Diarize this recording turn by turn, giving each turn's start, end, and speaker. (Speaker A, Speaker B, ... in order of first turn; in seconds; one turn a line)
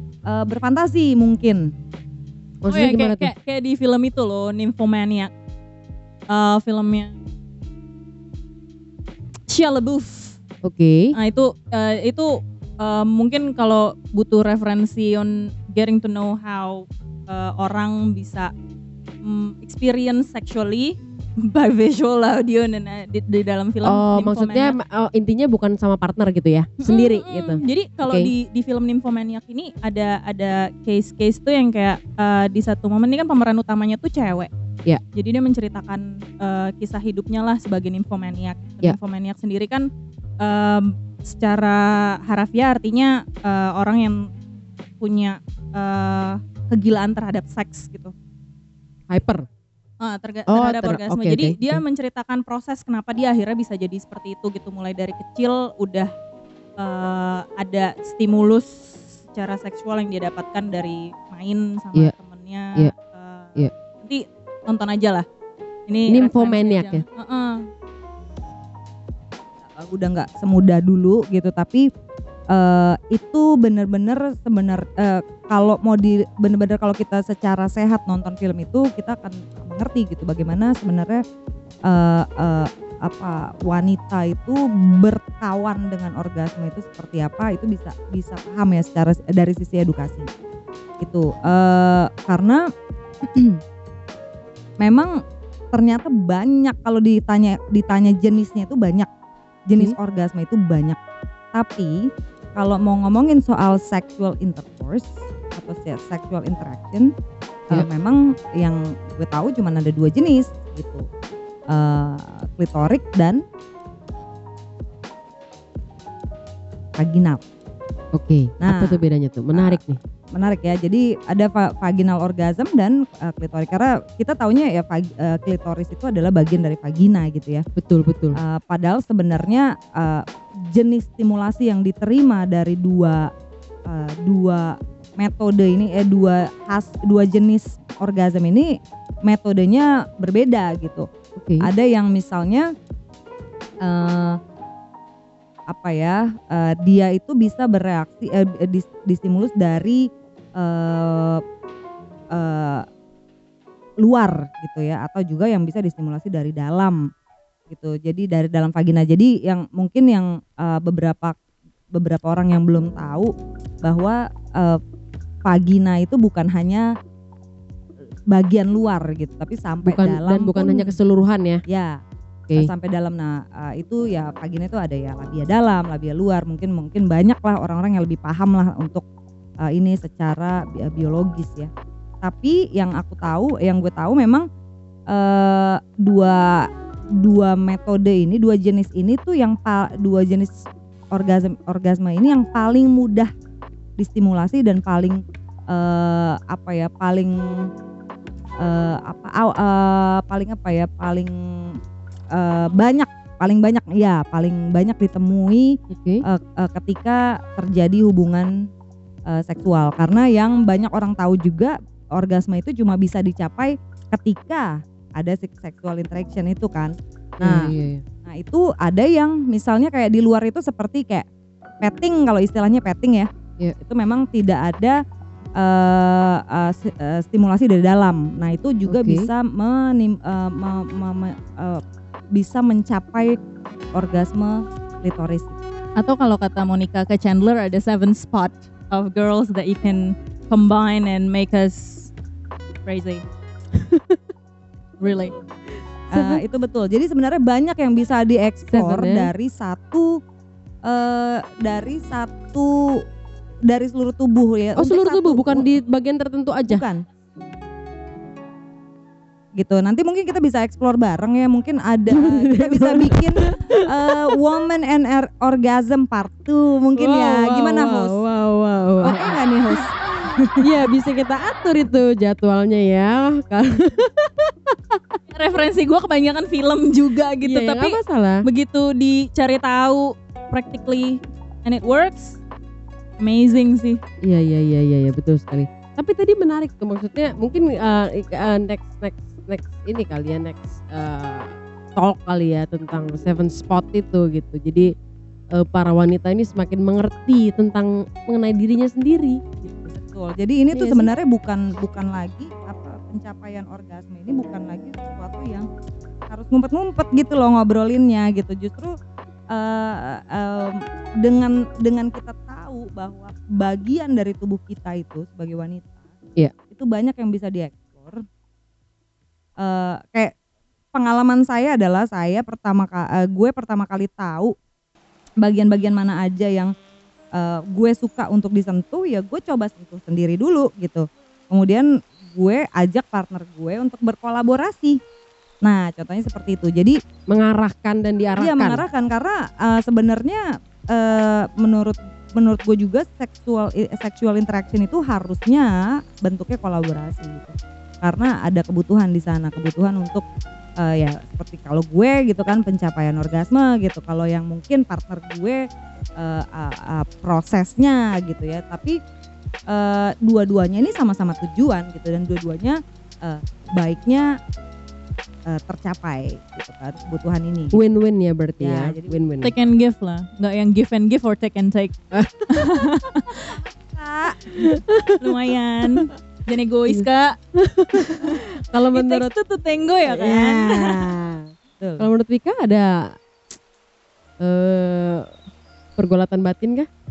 Speaker A: 0.3-1.7
Speaker B: 2.6-3.3
Speaker C: 2.7-5.3
Speaker C: 6.3-7.1
Speaker C: 9.5-10.4
Speaker B: 10.6-11.1
Speaker C: 11.2-18.5
Speaker C: 19.2-24.8
Speaker B: 23.8-28.3
Speaker C: 26.8-34.5
Speaker C: 35.1-39.9
Speaker C: 40.4-44.3
Speaker C: 45.0-48.1
Speaker B: 49.1-49.4
Speaker C: 50.0-56.1
Speaker B: 50.5-51.8
Speaker C: 56.8-65.2
Speaker C: 65.9-67.6
Speaker B: 66.1-67.0
Speaker A: 69.6-71.9
Speaker A: 72.5-81.2
Speaker A: 81.9-90.3
Speaker A: 91.0-92.6
Speaker A: 93.3-93.6
Speaker A: 94.8-95.1
Speaker A: 95.7-99.1
Speaker A: 99.7-101.0
Speaker A: 101.5-107.1
Speaker A: 107.7-111.0
Speaker A: 111.7-113.4
Speaker A: 117.0-117.4
Speaker B: 118.1-120.0
Speaker A: 118.6-119.0
Speaker A: 119.5-119.8
Speaker A: 120.3-127.7
Speaker B: 127.8-128.4
Speaker A: 128.4-133.3
Speaker A: 133.9-138.7
Speaker A: 139.2-141.1
Speaker B: 141.3-141.7
Speaker A: 141.6-142.7
Speaker A: 143.8-144.4
Speaker A: 145.7-150.0
Speaker A: 150.6-151.4
Speaker A: 152.3-152.8
Speaker A: 154.0-157.0
Speaker A: 157.7-161.3
Speaker A: 161.9-163.3
Speaker A: 163.8-164.8
Speaker A: 165.4-166.9
Speaker A: 168.3-171.0
Speaker B: 169.8-171.6
Speaker A: 171.7-172.0
Speaker A: 172.6-179.0
Speaker A: 179.7-181.7
Speaker A: 182.2-184.4
Speaker A: 185.1-186.6
Speaker A: 187.2-193.3
Speaker A: 194.0-197.4
Speaker A: 198.6-201.8
Speaker A: 202.3-205.7
Speaker B: 205.9-206.2
Speaker A: 206.2-208.5
Speaker A: 209.3-217.7
Speaker B: 217.4-218.0
Speaker A: 218.2-221.3
Speaker A: 221.8-225.0
Speaker A: 225.6-231.8
Speaker B: 228.9-229.3
Speaker A: 232.3-233.3
Speaker A: 233.9-235.6
Speaker C: 236.0-242.1
Speaker C: 242.8-243.3
Speaker B: 243.7-244.2
Speaker C: 245.0-245.3
Speaker B: 246.1-246.4
Speaker A: 246.1-250.1
Speaker B: 248.7-249.3
Speaker A: 250.8-252.8
Speaker A: 253.7-255.7
Speaker B: 254.8-256.8
Speaker A: 256.7-257.0
Speaker A: 259.6-268.2
Speaker B: 262.1-264.3
Speaker B: 266.9-269.4
Speaker A: 269.0-270.5
Speaker B: 270.6-275.1
Speaker C: 275.3-282.4
Speaker B: 277.4-278.4
Speaker C: 283.2-284.0
Speaker B: 284.2-294.9
Speaker B: 295.5-299.9
Speaker A: 299.9-305.7
Speaker B: 300.7-301.1
Speaker A: 306.3-308.9
Speaker A: 309.5-316.0
Speaker A: 316.7-318.2
Speaker A: 319.6-320.3
Speaker A: 320.9-324.5
Speaker A: 325.4-326.7
Speaker A: 327.4-335.0
Speaker A: 335.6-337.0
Speaker B: 337.3-338.8
Speaker A: 338.4-350.2
Speaker A: 350.8-355.6
Speaker A: 356.2-359.0
Speaker A: 359.7-364.3
Speaker A: 365.5-367.8
Speaker B: 367.7-369.5
Speaker A: 368.6-369.2
Speaker C: 369.4-371.9
Speaker B: 372.1-372.9
Speaker C: 372.5-373.6
Speaker A: 373.3-374.4
Speaker B: 374.5-376.1
Speaker C: 375.2-377.4
Speaker B: 377.6-379.3
Speaker C: 378.0-378.4
Speaker C: 378.9-381.1
Speaker B: 380.1-382.9
Speaker A: 381.8-382.1
Speaker B: 384.4-385.3
Speaker B: 386.0-386.9